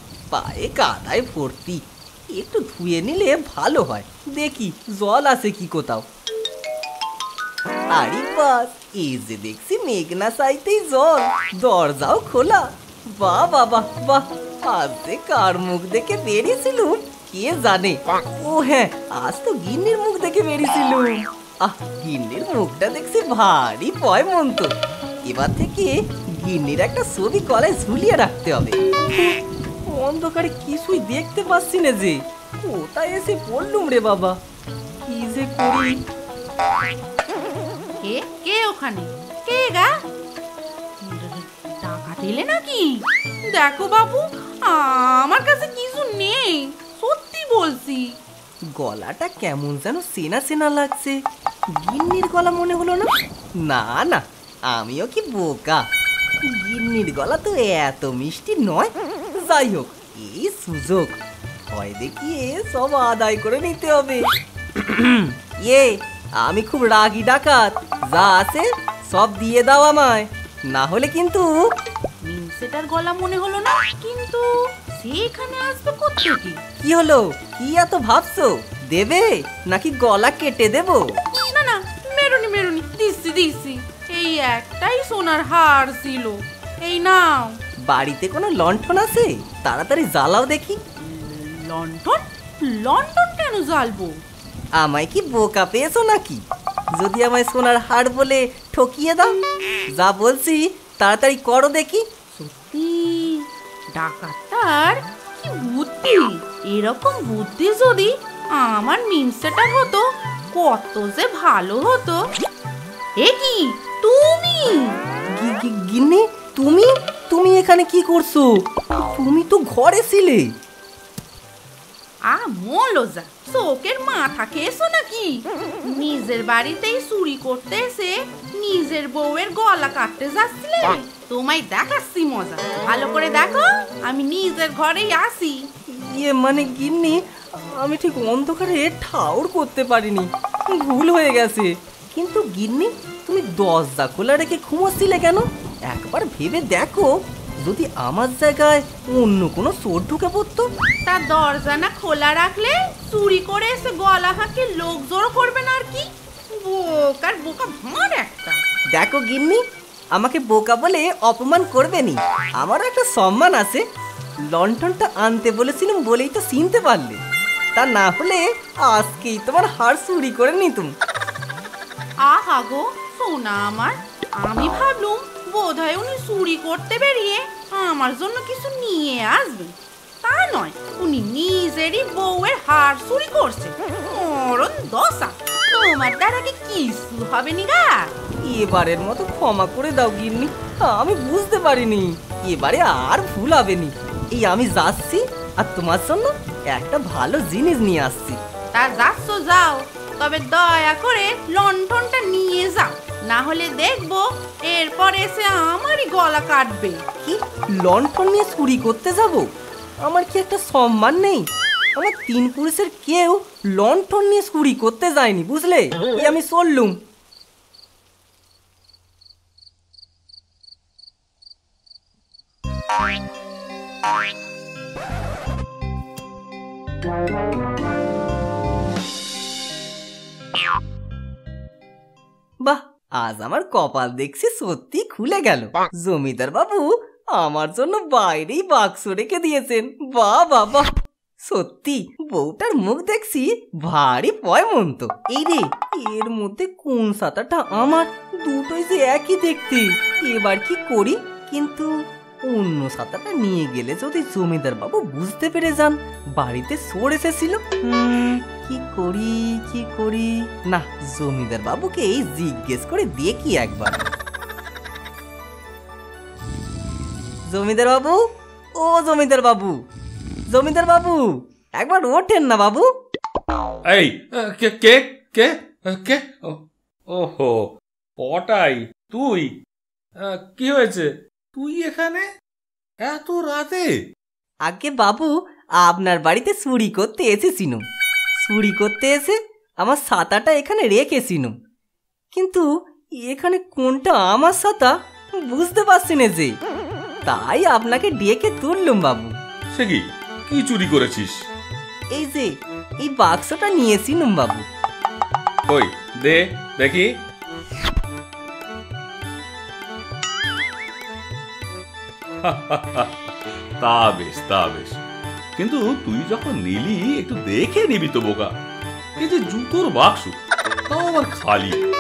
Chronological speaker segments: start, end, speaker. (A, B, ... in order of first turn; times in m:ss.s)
0:00.3-0:06.0 A
0:07.9-0:24.7 A
0:25.3-0:34.4 A
0:35.1-0:36.0 A
0:38.0-0:39.9 B
0:41.0-0:48.1 B
0:48.8-0:51.2 A
0:51.8-0:53.1 A
0:53.6-0:55.8 A
0:56.5-1:04.2 A
1:04.8-1:11.5 A
1:12.2-1:16.6 B
1:16.8-1:21.0 A
1:21.4-1:27.6 B
1:27.9-1:30.8 A
1:31.0-1:34.2 B
1:34.8-1:36.4 A
1:37.0-1:39.4 A
1:39.9-1:42.0 A
1:42.3-1:52.2 B
1:53.2-1:55.0 B
1:55.4-2:00.5 A
2:02.3-2:15.6 B
2:15.9-2:17.2 A
2:17.7-2:27.1 A
2:27.6-2:30.7 A
2:31.0-2:38.6 B
2:39.0-2:39.6 A
2:40.2-2:43.8 A
2:44.5-2:47.2 A
2:47.8-2:50.9 A
2:52.2-3:08.1 B
3:08.5-3:18.4 A
3:18.7-3:27.0 B
3:27.2-3:29.5 A
3:30.0-3:37.0 A
3:52.6-4:00.9 A
4:01.4-4:11.9 A
4:12.4-4:24.0 A
4:27.5-4:28.2 A
4:28.8-4:29.8 A
4:30.5-4:32.9 A
4:33.9-4:37.7 C
4:38.2-4:39.5 C
4:40.2-4:42.3 C
4:43.0-4:43.9 C
4:44.7-4:47.8 A
4:48.4-4:51.5 A
4:52.3-4:52.7 A
4:53.2-4:54.9 A
4:55.5-4:56.5 A
4:57.3-4:59.3 A
4:59.7-5:01.5 C
5:02.1-5:04.7 A
5:05.7-5:07.1 C
5:12.4-5:13.1 C
5:13.8-5:15.0 C
5:15.6-5:18.5 C
5:19.2-5:20.4 C
5:20.9-5:21.8 C